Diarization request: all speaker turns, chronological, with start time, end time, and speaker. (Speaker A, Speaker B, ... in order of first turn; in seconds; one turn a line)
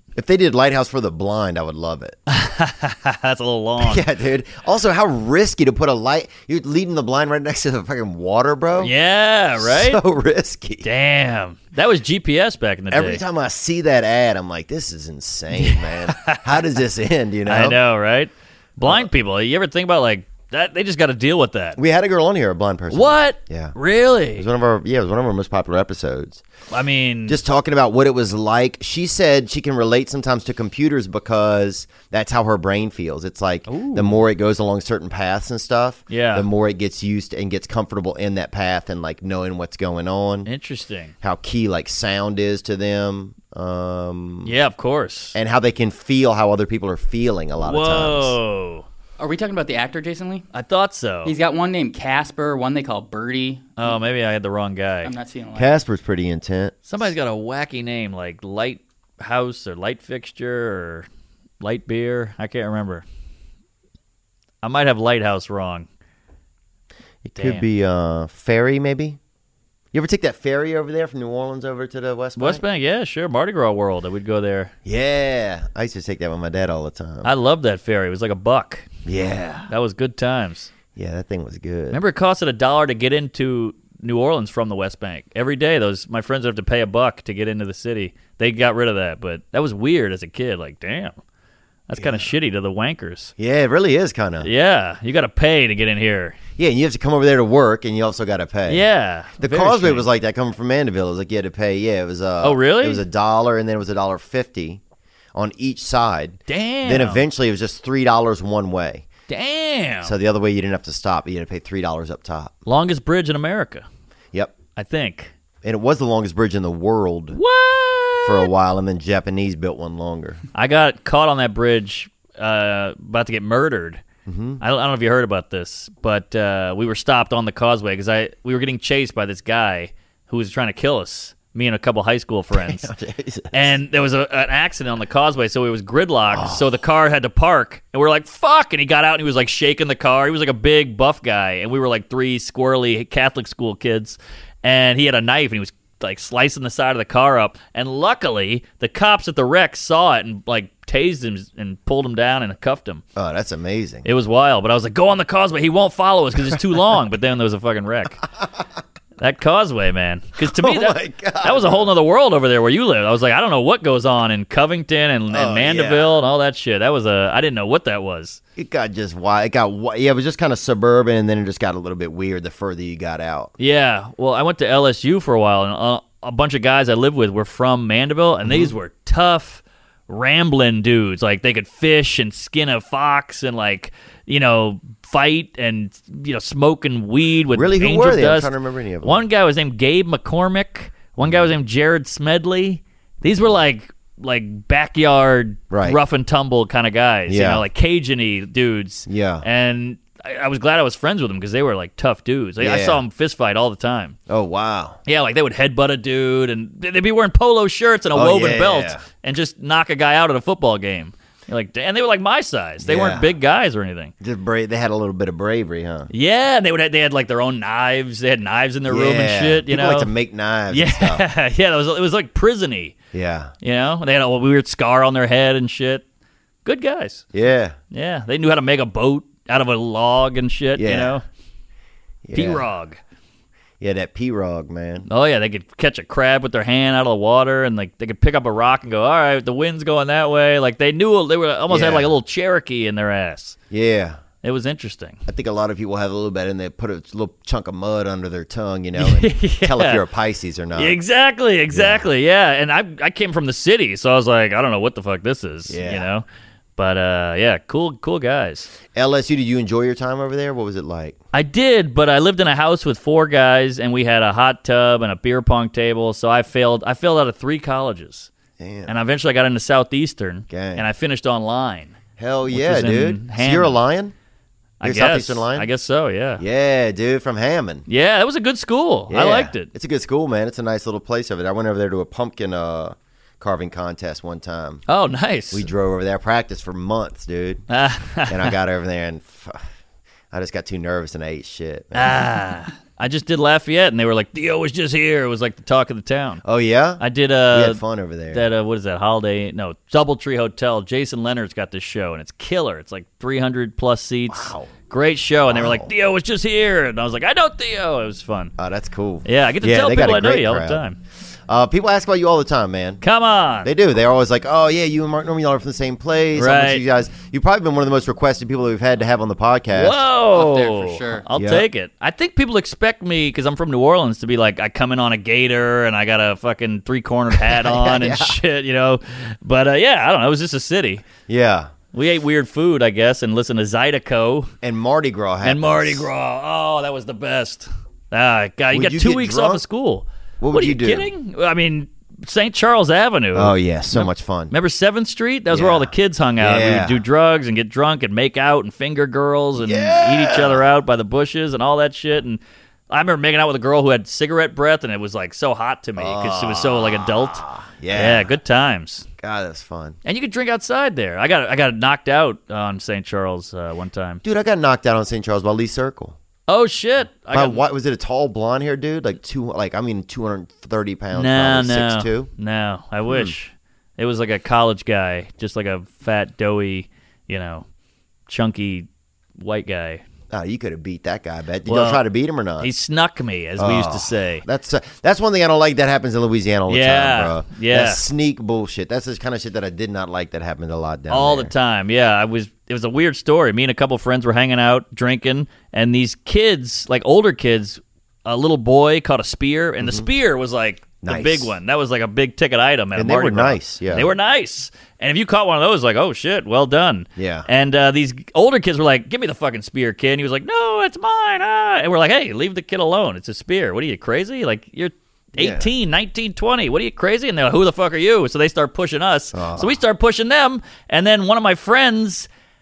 Speaker A: 0.1-2.2
Speaker B: 2.3-4.0
Speaker A: 3.8-8.9
Speaker B: 8.8-10.0
Speaker A: 9.6-10.9
Speaker B: 10.8-13.2
Speaker A: 12.9-17.8
Speaker B: 15.6-16.7
Speaker B: 17.4-21.8
Speaker A: 21.8-23.8
Speaker B: 22.9-24.4
Speaker A: 24.4-26.4
Speaker B: 26.7-27.4
Speaker A: 27.3-40.5
Speaker B: 33.7-34.2
Speaker B: 36.1-36.5
Speaker B: 40.5-41.1
Speaker A: 41.2-44.5
Speaker B: 44.5-45.4
Speaker A: 45.3-48.4
Speaker B: 47.6-48.9
Speaker C: 49.2-50.5
Speaker B: 50.5-51.3
Speaker C: 51.2-53.9
Speaker B: 53.8-55.1
Speaker C: 55.0-55.7
Speaker A: 55.5-56.7
Speaker B: 56.9-61.1
Speaker B: 61.6-63.0
Speaker B: 64.6-65.9
Speaker A: 67.2-69.2
Speaker B: 67.4-67.7
Speaker A: 69.9-72.6
Speaker B: 72.4-74.7
Speaker A: 74.8-77.3
Speaker B: 77.2-78.9
Speaker A: 79.1-79.7
Speaker B: 79.7-80.7
Speaker A: 80.9-82.0
Speaker B: 81.9-91.1
Speaker B: 91.9-93.3
Speaker A: 92.0-92.3
Speaker A: 93.4-94.5
Speaker B: 94.4-96.4
Speaker A: 96.6-98.8
Speaker B: 98.7-100.1
Speaker A: 99.4-104.8
Speaker B: 102.4-103.0
Speaker A: 105.3-109.1
Speaker B: 106.5-107.2
Speaker B: 109.3-110.1
Speaker A: 110.0-112.5
Speaker B: 112.7-113.8
Speaker B: 114.8-115.3
Speaker A: 115.6-117.4
Speaker B: 117.3-118.5
Speaker A: 118.2-120.4
Speaker B: 120.5-124.0
Speaker A: 124.3-124.6
Speaker B: 124.6-132.9
Speaker A: 132.5-133.7
Speaker B: 133.5-153.0
Speaker A: 136.3-136.6
Speaker A: 153.2-154.1
Speaker B: 154.1-158.2
Speaker B: 159.2-168.4
Speaker A: 160.4-161.9
Speaker A: 165.3-166.2
Speaker A: 168.6-173.5
Speaker B: 173.6-188.5
Speaker A: 178.4-178.7
Speaker A: 187.5-189.2
Speaker B: 189.0-204.2
Speaker A: 191.2-191.5
Speaker A: 195.7-196.0
Speaker A: 197.3-197.6
Speaker A: 199.1-199.4
Speaker A: 202.6-203.0
Speaker A: 204.3-205.0
Speaker B: 205.1-214.1
Speaker A: 208.1-209.0
Speaker A: 212.8-213.3
Speaker A: 214.2-216.1
Speaker B: 216.1-220.1
Speaker A: 218.9-221.2
Speaker B: 220.7-222.9
Speaker A: 223.1-223.5
Speaker B: 223.6-226.0
Speaker B: 226.6-227.2
Speaker A: 227.3-227.8
Speaker B: 227.9-231.2
Speaker A: 230.8-231.1
Speaker A: 232.2-232.6
Speaker B: 232.3-233.0
Speaker A: 233.8-235.1
Speaker B: 235.1-243.6
Speaker A: 241.7-242.1
Speaker A: 243.7-244.2
Speaker B: 244.4-245.2
Speaker A: 245.3-251.0
Speaker B: 249.0-250.0
Speaker B: 250.7-256.3
Speaker A: 251.7-252.1
Speaker A: 255.7-256.1
Speaker B: 256.8-258.7
Speaker A: 258.9-261.2
Speaker B: 261.3-268.3
Speaker A: 268.6-268.9
Speaker B: 268.9-271.9
Speaker A: 270.5-270.9
Speaker A: 272.2-274.1
Speaker B: 272.5-273.8
Speaker B: 274.8-276.4
Speaker A: 274.8-275.7
Speaker A: 276.4-277.9
Speaker B: 277.9-279.7
Speaker A: 279.1-284.8
Speaker B: 284.9-285.7
Speaker A: 285.5-287.6
Speaker B: 287.7-288.5
Speaker A: 288.3-289.6
Speaker A: 290.3-292.2
Speaker B: 291.9-296.4
Speaker A: 296.4-298.4
Speaker B: 297.0-297.8
Speaker B: 298.3-308.6
Speaker A: 304.3-304.7
Speaker A: 305.5-305.9
Speaker A: 308.6-310.8
Speaker B: 309.2-311.0
Speaker A: 311.5-313.0
Speaker B: 313.0-313.7
Speaker A: 313.6-320.0
Speaker B: 316.4-316.8
Speaker B: 319.7-331.1
Speaker C: 320.3-321.2
Speaker A: 321.4-321.6
Speaker A: 327.3-328.4
Speaker A: 331.3-331.7
Speaker B: 331.9-334.5
Speaker A: 334.6-336.1
Speaker B: 335.4-359.1
Speaker A: 338.7-339.6
Speaker A: 340.4-341.1
Speaker A: 343.3-344.5
Speaker A: 345.5-347.0
Speaker A: 349.6-350.6
Speaker A: 356.0-358.3
Speaker A: 359.2-360.0
Speaker B: 360.1-364.2
Speaker A: 364.2-366.1
Speaker B: 366.5-367.6
Speaker A: 367.3-372.3
Speaker B: 371.1-377.6
Speaker A: 373.1-373.3
Speaker B: 378.3-378.9
Speaker B: 379.4-380.0
Speaker A: 380.3-382.7
Speaker B: 381.7-382.1
Speaker B: 382.6-384.4
Speaker A: 383.6-391.5
Speaker B: 386.7-388.0
Speaker B: 391.1-422.3
Speaker A: 399.8-400.1
Speaker A: 401.0-401.5
Speaker A: 402.9-404.1
Speaker A: 407.2-407.5
Speaker A: 415.4-415.7
Speaker A: 419.3-419.8